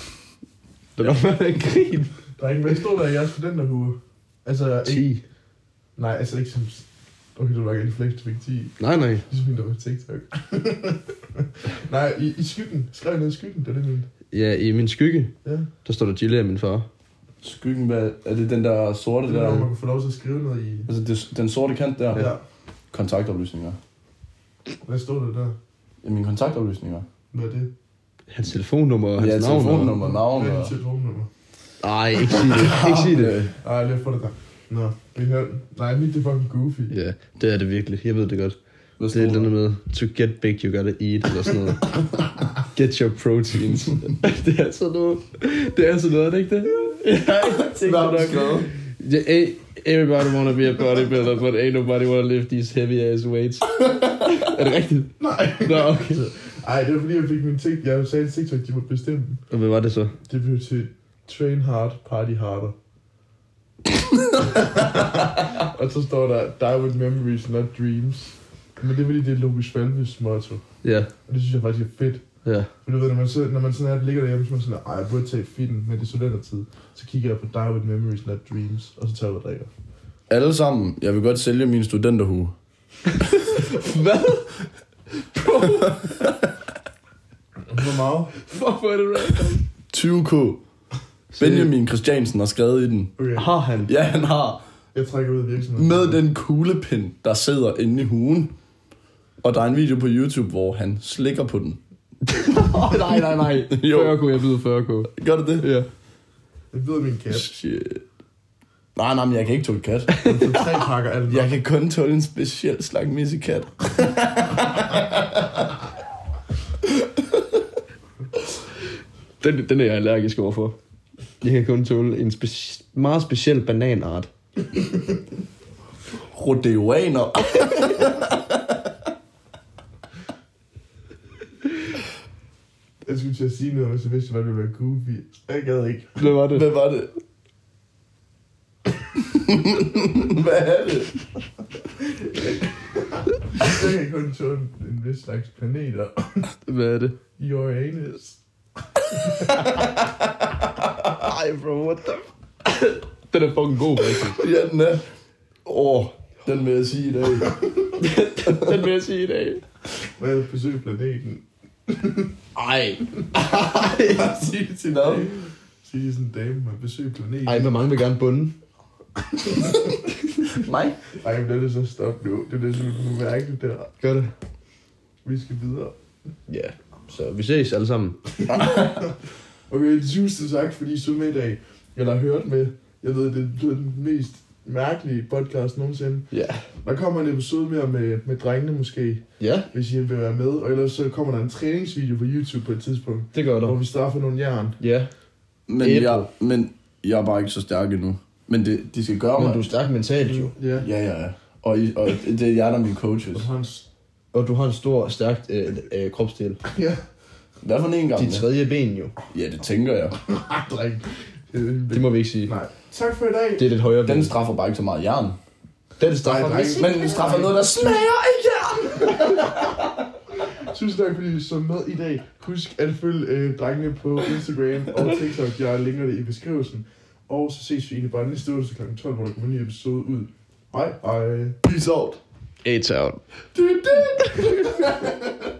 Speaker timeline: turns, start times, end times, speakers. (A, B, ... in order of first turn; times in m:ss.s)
0:01.0-0:02.1 A
0:02.4-0:05.1 B
0:04.8-0:05.2 A
0:06.0-0:14.1 B
0:08.8-0:09.2 A
0:14.3-0:15.3 A
0:15.4-0:15.7 B
0:15.8-0:16.9 A
0:17.4-0:19.7 C
0:19.2-0:20.9 B
0:20.9-0:22.3 C
0:22.1-0:22.4 B
0:22.9-0:23.8 C
0:24.8-0:25.6 B
0:26.0-0:27.0 C
0:27.3-0:27.7 B
0:28.3-0:29.9 A
0:29.2-0:30.7 C
0:29.9-0:31.3 B
0:31.8-0:33.4 A
0:32.4-0:33.5 C
0:33.6-0:36.9 B
0:36.9-0:38.6 A
0:39.0-0:39.5 C
0:39.1-0:42.0 A
0:42.7-0:56.2 A
0:47.4-0:48.7 C
0:55.2-0:59.4 B
0:59.5-1:00.1 A
1:00.2-1:02.7 B
1:04.5-1:10.6 B
1:10.8-1:11.1 A
1:11.3-1:12.2 B
1:12.4-1:12.7 A
1:12.8-1:19.7 B
1:20.3-1:22.5 C
1:23.5-1:24.6 A
1:25.2-1:26.0 A
1:25.7-1:26.5 C
1:27.7-1:28.3 B
1:28.4-1:29.6 A
1:29.9-1:30.6 C
1:31.3-1:31.7 A
1:31.4-1:33.1 C
1:33.2-1:33.5 B
1:33.3-1:33.9 A
1:33.9-1:34.6 C
1:34.9-1:36.2 B
1:35.8-1:38.5 C
1:39.4-1:41.8 C
1:42.3-1:45.9 A
1:42.7-1:44.2 C
1:45.1-1:45.7 C
1:46.7-1:47.5 B
1:47.3-1:48.0 C
1:49.0-1:50.6 C
1:50.2-1:51.5 B
1:51.3-1:55.7 C
1:59.4-2:00.8 A
2:01.4-2:04.3 A
2:06.3-2:08.8 C
2:13.0-2:16.3 B
2:16.2-2:16.7 A
2:16.5-2:17.1 C
2:19.5-2:21.1 C
2:23.4-2:26.5 B
2:26.7-2:27.2 A
2:27.4-2:28.4 B
2:29.2-2:29.7 B
2:31.2-2:34.4 A
2:34.4-2:35.0 C
2:35.6-2:36.2 A
2:36.4-2:37.6 C
2:38.0-2:39.6 A
2:38.5-2:38.8 C
2:40.2-2:42.3 B
2:42.5-2:44.4 A
2:44.1-2:47.7 B
2:44.8-2:45.3 C
2:47.4-2:48.6 A
2:50.5-2:51.0 C
2:51.2-2:53.9 B
2:54.0-2:54.3 A
2:55.2-2:56.0 B
2:56.5-2:58.2 A
2:58.4-2:59.1 B
2:58.5-2:59.1 C
2:59.7-3:06.3 B
3:06.3-3:06.6 A
3:06.8-3:14.8 B
3:09.4-3:09.7 A
3:13.3-3:13.8 A
3:14.8-3:15.1 A
3:15.7-3:19.6 C
3:15.8-3:16.3 A
3:19.4-3:20.5 A
3:20.3-3:20.9 B
3:20.8-3:23.5 C
3:23.3-3:23.9 B
3:24.3-3:26.6 A
3:26.7-3:27.0 B
3:27.6-3:28.5 C
3:28.2-3:29.1 A
3:29.3-3:30.2 C
3:30.3-3:33.7 B
3:31.9-3:32.5 A
3:33.6-3:34.3 A
3:34.0-3:35.4 C
3:36.0-3:37.1 A
3:36.0-3:37.7 B
3:36.7-3:39.9 C
3:40.6-3:51.7 B
3:51.6-3:52.2 C
3:52.6-3:53.2 A
3:53.6-3:54.6 B
3:54.2-3:55.1 C